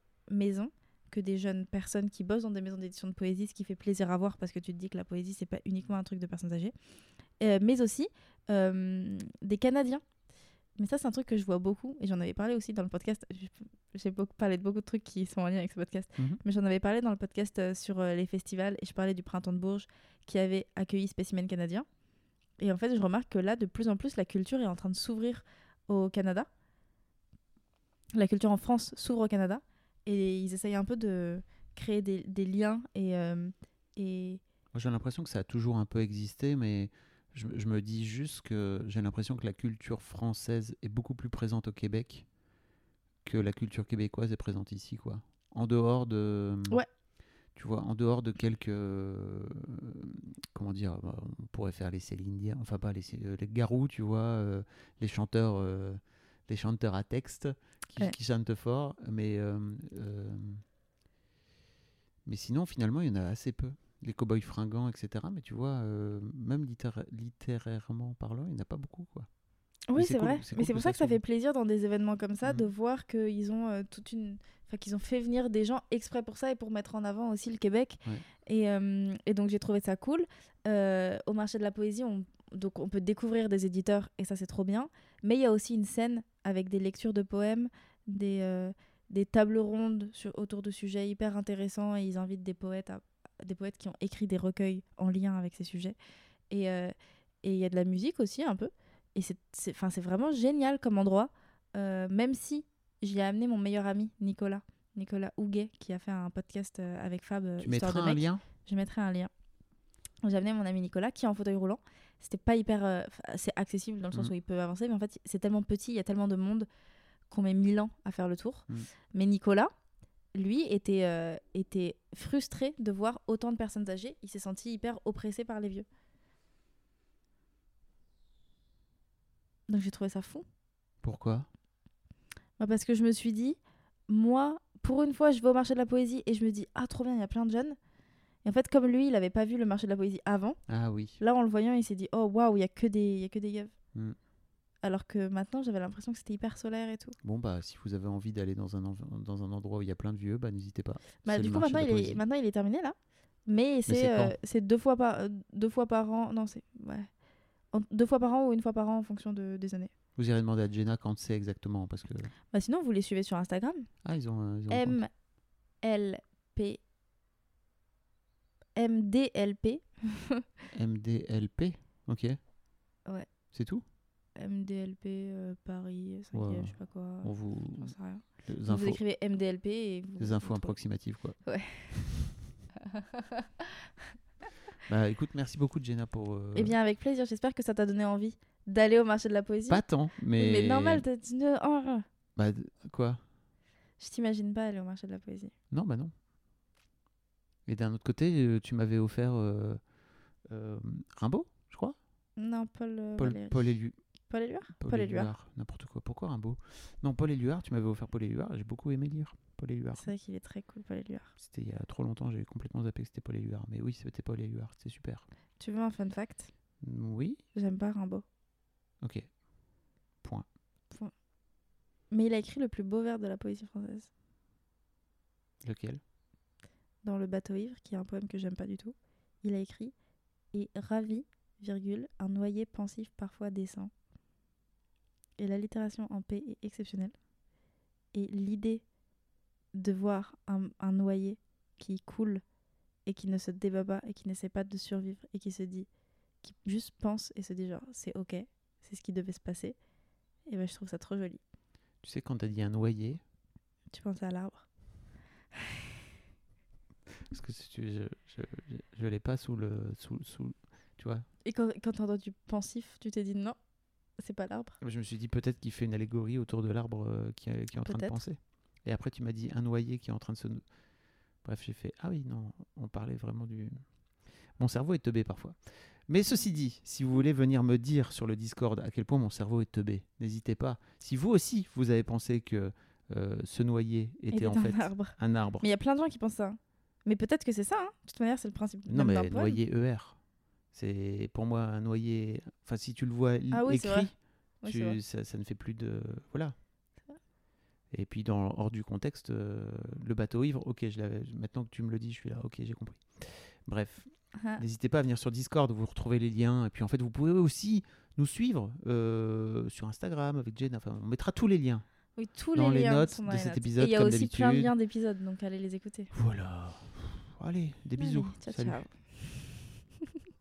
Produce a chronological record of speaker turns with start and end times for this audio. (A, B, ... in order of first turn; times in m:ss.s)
0:00.3-0:06.7 A
0:07.4-0:10.0 A
0:10.8-0:21.8 A
0:22.6-0:26.5 A
0:28.1-0:34.4 A
0:34.7-0:42.2 B
0:43.2-0:46.8 B
0:47.6-1:00.6 B
1:02.2-1:09.3 B
1:09.9-1:36.0 A
1:10.0-1:11.2 B
1:36.5-1:49.3 A
1:47.6-1:48.4 B
1:50.2-1:56.7 A
1:57.3-1:59.7 A
2:00.3-2:05.8 A
2:09.7-2:10.4 A
2:11.0-2:11.5 B
2:12.6-2:17.8 A
2:18.4-2:20.6 A
2:20.7-2:21.2 B
2:21.2-2:23.7 A
2:24.8-2:27.1 A
2:27.2-2:32.2 B
2:31.2-2:32.9 A
2:33.4-2:37.1 A
2:33.9-2:34.4 B
2:37.7-2:39.9 A
2:40.2-2:42.3 B
2:42.5-2:43.9 A
2:44.0-2:45.0 B
2:44.7-2:45.1 A
2:45.8-2:46.8 A
2:48.8-2:50.4 A
2:50.7-2:52.4 B
2:53.5-2:53.8 B
2:54.4-3:00.8 A
2:56.3-2:59.0 B
3:00.2-3:01.4 B
3:01.4-3:02.2 A
3:02.9-3:03.2 A
3:04.9-3:06.8 B
3:06.5-3:12.0 A
3:09.7-3:11.0 B
3:12.4-3:13.2 B
3:14.0-3:15.5 A
3:15.7-3:16.1 B
3:17.6-3:19.8 B
3:20.5-3:22.0 B
3:22.4-3:25.3 A
3:23.2-3:24.0 B
3:24.8-3:30.1 B
3:30.0-3:31.3 A
3:31.4-3:35.2 B
3:35.6-3:36.5 A
3:36.8-3:37.4 B
3:37.5-3:38.2 A
3:39.0-3:39.3 B
3:42.1-3:44.1 A
3:45.6-3:46.0 B
3:47.0-3:49.9 A
3:50.5-3:53.9 A
3:55.4-3:57.1 A
3:58.1-3:58.8 A
3:59.7-4:02.4 A
4:03.0-4:05.9 A
4:06.4-4:09.8 A
4:10.4-4:11.4 A
4:12.0-4:13.2 B
4:13.9-4:14.6 A
4:17.3-4:21.2 B
4:21.4-4:23.6 A
4:24.2-4:24.7 A
4:24.8-4:30.6 B
4:27.8-4:28.2 A
4:31.4-4:33.7 B
4:34.6-4:35.6 B
4:36.1-4:45.7 B
4:44.3-4:49.6 A
4:48.9-4:50.2 B
4:50.7-4:56.5 B
4:53.5-4:55.0 A
4:57.9-5:03.0 B
5:03.6-5:04.1 B
5:04.4-5:04.6 A
5:04.6-5:11.8 B
5:12.2-5:16.1 A
5:12.5-5:14.7 B
5:16.1-5:18.8 B
5:18.0-5:19.3 A